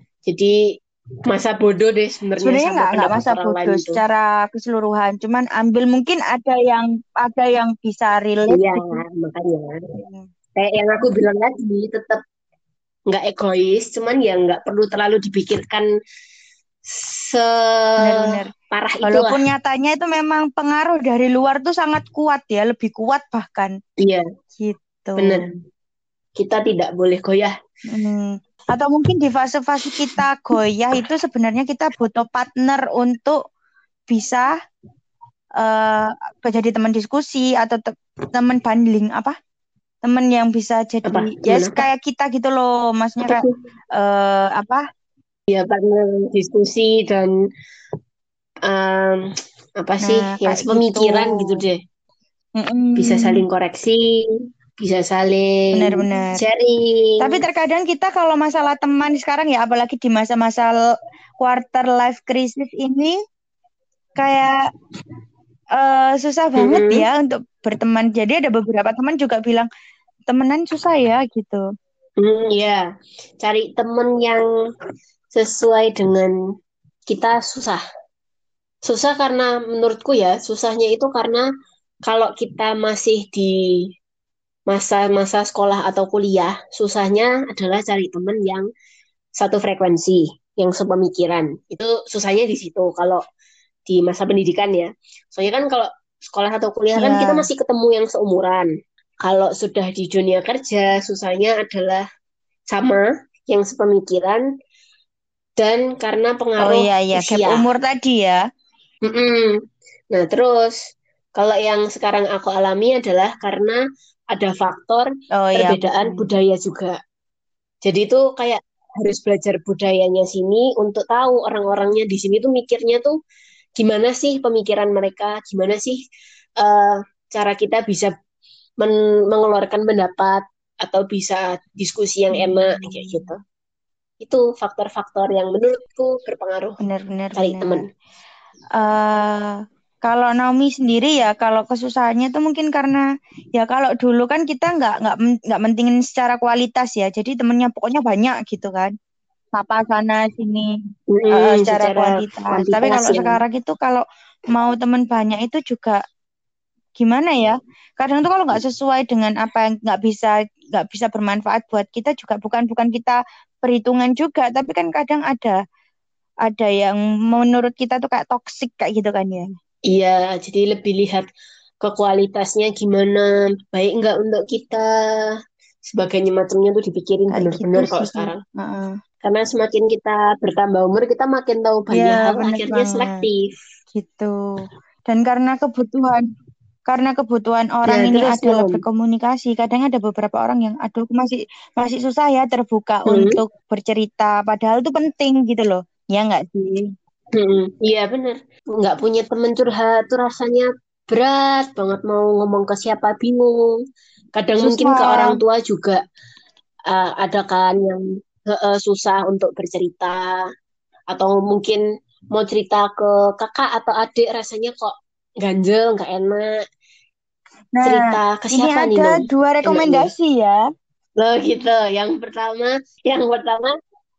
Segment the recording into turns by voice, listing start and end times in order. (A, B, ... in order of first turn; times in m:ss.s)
0:00.3-0:00.6 A
0:01.3-0:04.0 A
0:02.4-0:09.0 B
0:08.5-0:09.8 A
0:10.0-0:10.3 B
0:10.6-0:12.2 A
0:13.1-0:15.9 A
0:16.8-0:19.4 A
0:18.0-0:18.5 B
0:19.0-0:23.7 B
0:24.0-0:24.3 A
0:24.6-0:25.4 B
0:25.2-0:25.5 A
0:26.4-0:27.5 A
0:27.9-0:33.4 B
0:34.1-0:34.5 B
0:35.6-0:39.4 B
0:40.0-0:43.4 B
0:41.1-0:41.8 A
0:43.3-0:43.6 A
0:44.0-0:44.8 B
0:45.5-0:47.4 A
0:48.6-0:51.8 A
0:50.0-0:51.6 B
0:52.6-0:53.4 B
0:53.0-0:54.3 A
0:54.8-0:57.4 A
0:55.7-0:56.4 B
0:57.2-1:00.7 B
1:01.4-1:03.2 B
1:04.2-1:04.6 B
1:05.8-1:09.7 B
1:06.6-1:07.0 A
1:10.3-1:11.6 B
1:12.2-1:12.9 A
1:13.4-1:14.4 A
1:15.3-1:16.3 A
1:17.1-1:17.8 A
1:18.8-1:21.5 A
1:22.1-1:23.9 A
1:24.7-1:28.7 A
1:29.4-1:33.2 A
1:33.9-1:38.7 A
1:37.0-1:37.5 B
1:39.2-1:42.0 A
1:42.7-1:44.4 A
1:45.6-1:47.6 A
1:46.6-1:48.4 B
1:49.1-1:49.6 A
1:50.1-1:50.8 A
1:51.4-1:53.8 A
1:54.3-1:57.0 A
1:55.4-1:56.3 B
1:57.8-2:03.2 A
2:03.8-2:06.0 A
2:06.6-2:08.1 A
2:08.8-2:13.4 A
2:12.3-2:13.3 B
2:14.2-2:16.8 A
2:16.8-2:17.8 B
2:17.4-2:17.9 A
2:18.8-2:19.5 B
2:20.1-2:23.0 B
2:23.6-2:28.9 B
2:29.6-2:30.7 B
2:31.1-2:33.4 A
2:31.3-2:36.0 B
2:37.0-2:45.6 B
2:46.5-2:49.5 B
2:49.9-2:51.3 A
2:51.8-2:54.9 A
2:55.9-2:58.4 A
2:57.3-2:58.9 B
2:59.2-3:03.5 A
3:01.9-3:03.2 B
3:03.9-3:04.3 B
3:05.1-3:06.2 B
3:06.9-3:16.9 B
3:07.9-3:08.8 A
3:13.1-3:13.4 A
3:17.4-3:23.6 A
3:24.4-3:26.0 A
3:24.6-3:25.4 B
3:26.9-3:30.3 A
3:31.1-3:31.8 A
3:32.3-3:36.5 A
3:37.8-3:40.6 B
3:37.8-3:40.1 A
3:41.2-3:43.8 A